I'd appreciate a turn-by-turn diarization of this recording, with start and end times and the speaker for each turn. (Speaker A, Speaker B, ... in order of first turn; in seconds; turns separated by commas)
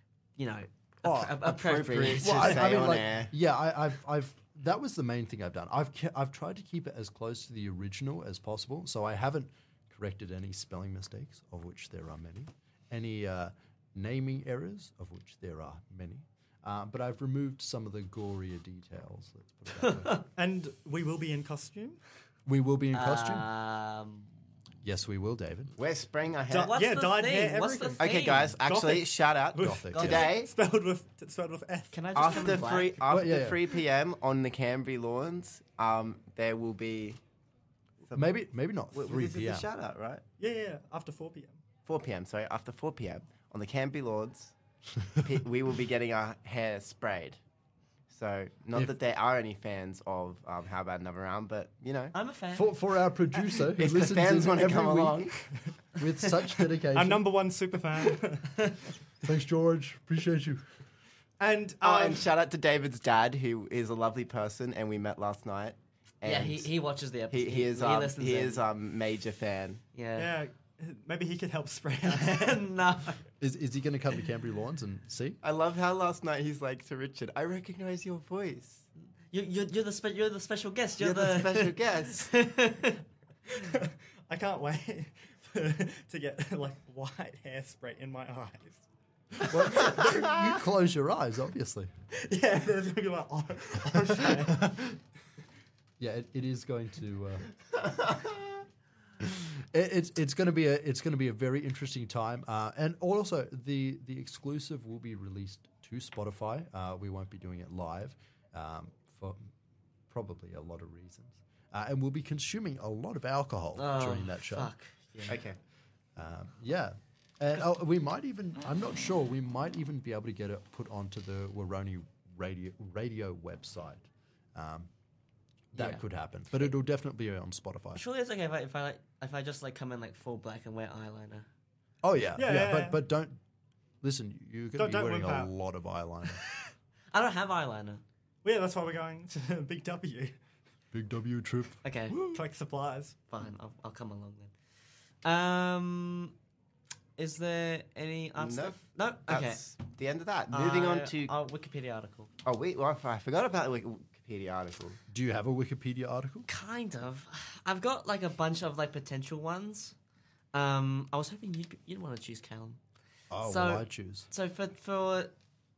Speaker A: 0.4-2.8, Speaker B: 1.0-1.4, Speaker C: 1.4-3.3, Speaker B: 2.1-20.1, Speaker A: 19.8-20.2, Speaker D: 20.4-22.0, Speaker B: 22.4-23.5, Speaker A: 22.9-24.3, Speaker B: 24.8-25.7, Speaker C: 25.8-26.7, Speaker D: 26.5-31.9, Speaker A: 26.5-28.5, Speaker C: 28.0-30.5, Speaker B: 29.6-30.3, Speaker A: 31.9-33.0, Speaker C: 32.1-37.2, Speaker B: 33.1-33.6, Speaker C: 38.0-38.3, Speaker B: 38.1-39.7, Speaker C: 38.9-40.2, Speaker D: 40.4-41.6, Speaker C: 41.9-44.5, Speaker C: 45.2-47.4, Speaker C: 48.1-52.1, Speaker A: 52.1-52.7, Speaker B: 52.5-55.3, Speaker C: 53.7-55.4, Speaker B: 56.0-57.3, Speaker D: 56.9-58.6, Speaker B: 59.2-60.6, Speaker D: 61.4-62.3, Speaker C: 61.8-66.7, Speaker A: 66.2-68.6, Speaker C: 67.3-69.8, Speaker A: 69.9-70.3, Speaker D: 70.2-72.7, Speaker A: 72.1-73.2, Speaker B: 73.4-75.4, Speaker C: 75.4-78.8, Speaker A: 79.3-83.0, Speaker C: 81.0-82.3, Speaker D: 83.5-88.8, Speaker B: 89.5-91.9, Speaker D: 89.5-90.0, Speaker D: 92.2-94.7, Speaker B: 94.4-95.0, Speaker B: 96.0-97.5, Speaker C: 97.9-98.6, Speaker B: 99.2-109.5, Speaker B: 110.1-114.7, Speaker A: 113.8-115.4, Speaker C: 115.3-115.6, Speaker B: 116.2-124.9, Speaker B: 125.7-128.0, Speaker A: 125.7-126.0, Speaker A: 127.9-131.5, Speaker B: 132.0-133.4, Speaker D: 132.4-133.0, Speaker B: 134.0-136.4, Speaker D: 134.8-135.5, Speaker A: 136.4-138.0, Speaker D: 138.4-140.3, Speaker B: 140.9-142.4, Speaker A: 141.8-142.2, Speaker D: 142.3-143.2, Speaker A: 143.3-144.5, Speaker A: 145.2-146.3, Speaker A: 147.2-149.6, Speaker C: 148.4-151.3, Speaker A: 150.5-152.3, Speaker C: 152.4-155.0, Speaker B: 155.1-156.5, Speaker A: 156.5-159.9, Speaker A: 160.5-162.8, Speaker B: 163.3-164.3, Speaker A: 163.4-165.3